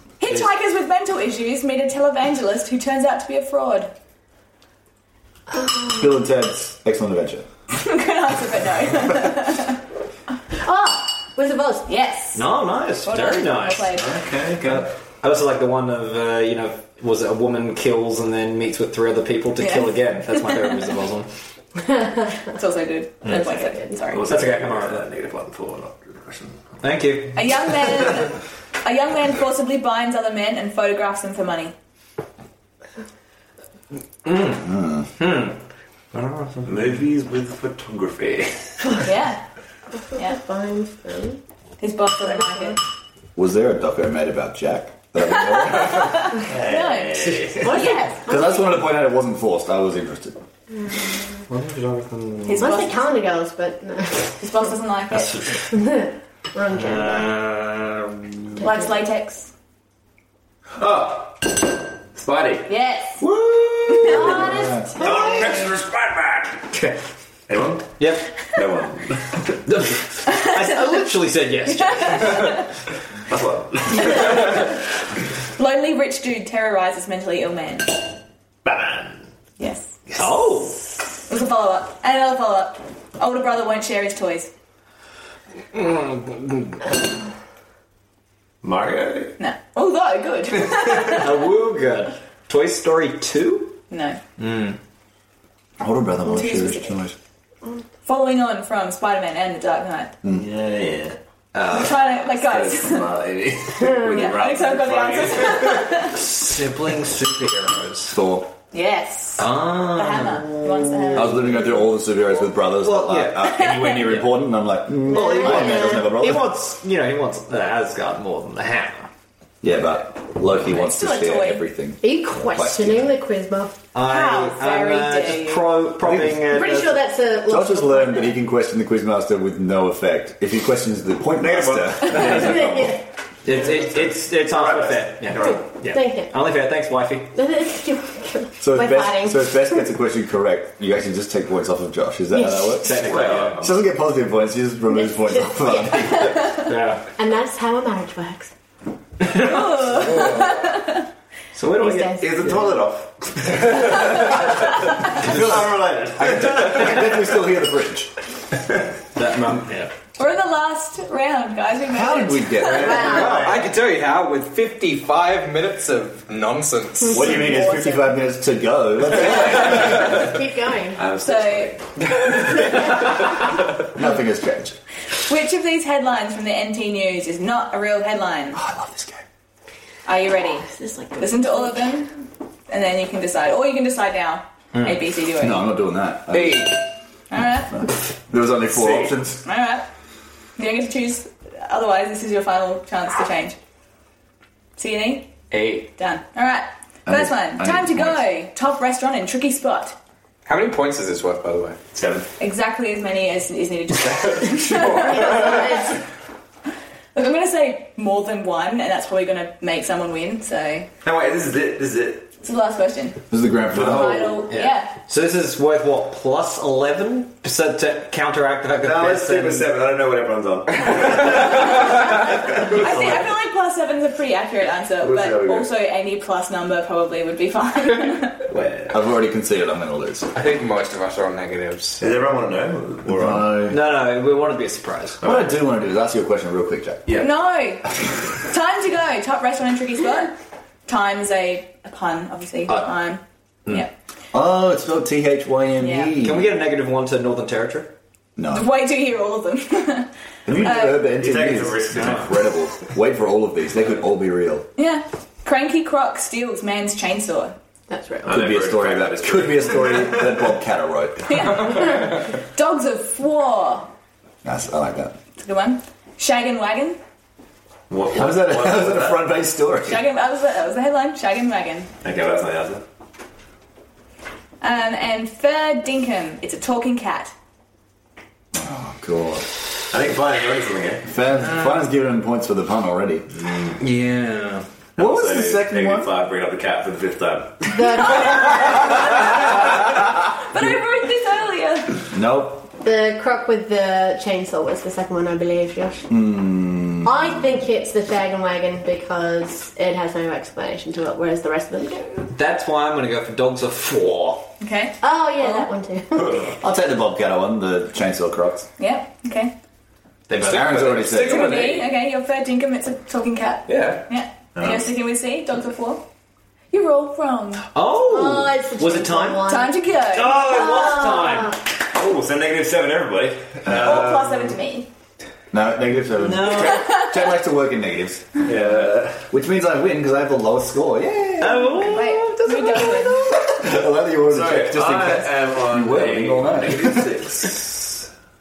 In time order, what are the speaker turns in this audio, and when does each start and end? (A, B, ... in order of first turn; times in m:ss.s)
0:00.2-0:03.9 A
0:05.5-0:06.1 B
0:06.0-0:07.5 C
0:07.7-0:09.8 A
0:10.6-0:11.9 B
0:11.9-0:12.4 A
0:12.4-0:14.0 D
0:13.0-0:14.1 A
0:13.9-0:14.9 E
0:14.6-0:21.3 D
0:19.6-0:20.0 A
0:22.4-0:24.3 A
0:23.3-0:24.0 B
0:24.1-0:26.7 E
0:24.3-0:25.0 D
0:26.8-0:27.6 D
0:27.3-0:31.7 A
0:34.2-0:35.6 D
0:34.6-0:35.1 C
0:36.1-0:36.7 D
0:36.6-0:38.8 E
0:39.0-0:39.4 A
0:40.1-0:41.4 B
0:41.8-0:42.8 A
0:43.4-0:46.3 C
0:45.5-0:48.2 A
0:46.4-0:47.8 E
0:47.6-0:48.9 B
0:48.3-0:50.4 C
0:50.8-0:51.4 B
0:51.5-0:52.7 D
0:52.4-0:53.2 A
0:52.6-0:54.5 B
0:54.4-0:55.5 A
0:55.1-0:55.7 D
0:55.6-0:57.3 B
0:56.8-0:58.5 D
0:58.6-0:59.5 A
1:00.8-1:02.7 E
1:02.7-1:03.2 A
1:04.0-1:04.4 A
1:04.0-1:04.3 E
1:04.0-1:05.7 B
1:04.0-1:05.0 C
1:05.0-1:06.4 E
1:06.6-1:07.0 D
1:07.5-1:09.6 E
1:08.0-1:08.3 D
1:09.7-1:12.7 D
1:10.3-1:10.6 A
1:12.0-1:12.6 A
1:13.3-1:14.6 E
1:13.9-1:14.7 A
1:15.6-1:18.0 A
1:18.6-1:19.3 E
1:19.6-1:20.0 A
1:20.1-1:20.6 E
1:20.2-1:20.8 D
1:21.1-1:24.5 A
1:25.7-1:26.8 D
1:28.6-1:29.4 E
1:29.4-1:31.4 A
1:31.1-1:33.8 D
1:33.9-1:34.2 A
1:34.4-1:34.8 D
1:35.8-1:37.2 C
1:36.3-1:37.0 A
1:38.0-1:40.2 A
1:40.2-1:46.0 E
1:41.6-1:42.0 D
1:41.7-1:43.1 A
1:44.0-1:44.3 B
1:44.0-1:46.2 A
1:45.9-1:48.2 D
1:48.1-1:48.5 C
1:48.7-1:51.5 A
1:49.4-1:51.6 D
1:51.1-1:56.6 C
1:52.8-1:54.2 D
1:53.4-1:54.2 A
1:55.0-1:59.1 D
1:55.1-1:56.1 B
1:59.6-2:03.1 C
2:00.6-2:01.6 A
2:02.0-2:03.8 B
2:03.9-2:07.1 D
2:04.0-2:05.8 A
2:06.0-2:06.5 C
2:06.4-2:08.4 B
2:07.4-2:13.0 C
2:11.4-2:15.6 E
2:12.1-2:13.0 B
2:13.4-2:17.3 D
2:15.4-2:16.4 B
2:17.3-2:19.8 B
2:18.6-2:23.1 C
2:22.4-2:22.8 B
2:22.8-2:23.6 D
2:22.9-2:23.8 E
2:23.6-2:26.7 C
2:25.0-2:28.5 B
2:26.6-2:27.0 D
2:29.3-2:31.1 A
2:29.4-2:29.8 D
2:29.9-2:30.7 F
2:31.5-2:32.6 D
2:31.7-2:32.6 B
2:32.1-2:34.4 E
2:35.1-2:37.2 E
2:35.2-2:38.1 C
2:39.2-2:39.9 D
2:39.2-2:39.7 C
2:40.2-2:43.2 A
2:41.9-2:43.3 C
2:42.7-2:43.5 B
2:43.0-2:43.7 E
2:43.3-2:47.5 F
2:47.1-2:48.1 A
2:47.1-2:50.0 C
2:49.2-2:50.3 E
2:49.2-2:51.0 B
2:51.0-2:51.9 E
2:51.2-2:51.7 A
2:53.8-2:54.8 C
2:55.3-2:58.6 A
2:58.5-2:59.2 C
3:00.1-3:02.1 A
3:00.7-3:01.9 B
3:02.7-3:05.7 A
3:05.4-3:06.8 C
3:06.3-3:06.8 D
3:07.3-3:07.7 A
3:07.7-3:09.4 C
3:08.8-3:09.1 D
3:09.4-3:09.9 A
3:10.6-3:13.6 A
3:14.8-3:15.3 A
3:15.5-3:15.9 D
3:16.0-3:20.0 A
3:17.1-3:18.2 C
3:20.5-3:21.8 F
3:21.9-3:22.3 E
3:22.4-3:26.0 A
3:25.1-3:25.9 B
3:27.1-3:30.9 A
3:31.0-3:32.3 E
3:32.4-3:33.2 A
3:33.3-3:34.4 C
3:33.7-3:34.4 E
3:33.8-3:34.9 A
3:34.5-3:39.7 D
3:38.8-3:43.3 E
3:42.7-3:48.4 A
3:45.0-3:45.7 E
3:48.5-3:49.0 E
3:48.9-3:50.3 C
3:50.3-3:52.0 F
3:52.0-3:53.6 E
3:53.1-3:53.8 C
3:53.7-3:55.2 D
3:55.2-3:55.5 E
3:55.2-3:57.2 C
3:57.2-4:00.3 A
4:00.9-4:03.9 A
4:04.3-4:06.6 C
4:05.8-4:06.2 A
4:06.2-4:07.9 D
4:08.4-4:08.8 C
4:08.5-4:10.1 A
4:10.5-4:14.7 C
4:10.6-4:11.1 A
4:11.1-4:12.4 E
4:14.8-4:17.6 A
4:17.9-4:18.4 B
4:18.3-4:20.5 E
4:18.3-4:21.6 C
4:21.3-4:23.9 A
4:24.4-4:25.2 C
4:25.4-4:27.0 A
4:27.9-4:29.3 E
4:28.1-4:30.0 C
4:29.8-4:31.9 A
4:32.0-4:32.8 E
4:34.6-4:37.3 A
4:38.5-4:39.5 C
4:39.9-4:41.1 E
4:41.1-4:43.3 C
4:43.8-4:44.6 D
4:45.0-4:48.0 E
4:45.0-4:46.1 C
4:47.7-4:48.9 B
4:48.0-4:52.0 A
4:52.1-4:52.7 C
4:52.8-4:56.1 B
4:56.1-4:57.4 C
4:57.0-5:02.3 B
5:02.3-5:04.5 D
5:04.6-5:05.7 A
5:05.0-5:06.5 B
5:06.6-5:08.7 C
5:08.8-5:09.5 A
5:10.3-5:11.2 D
5:10.4-5:11.7 C
5:10.4-5:11.8 F
5:11.1-5:16.0 A
5:13.7-5:14.0 D
5:14.5-5:15.0 E
5:16.7-5:17.7 A
5:17.7-5:21.6 D
5:18.0-5:21.6 B
5:19.5-5:20.5 A
5:21.9-5:24.5 E
5:23.7-5:24.9 A
5:25.5-5:28.6 C
5:26.2-5:27.0 D
5:28.4-5:29.3 E
5:29.3-5:37.7 C
5:31.4-5:32.3 D
5:31.9-5:33.4 A
5:34.2-5:37.8 E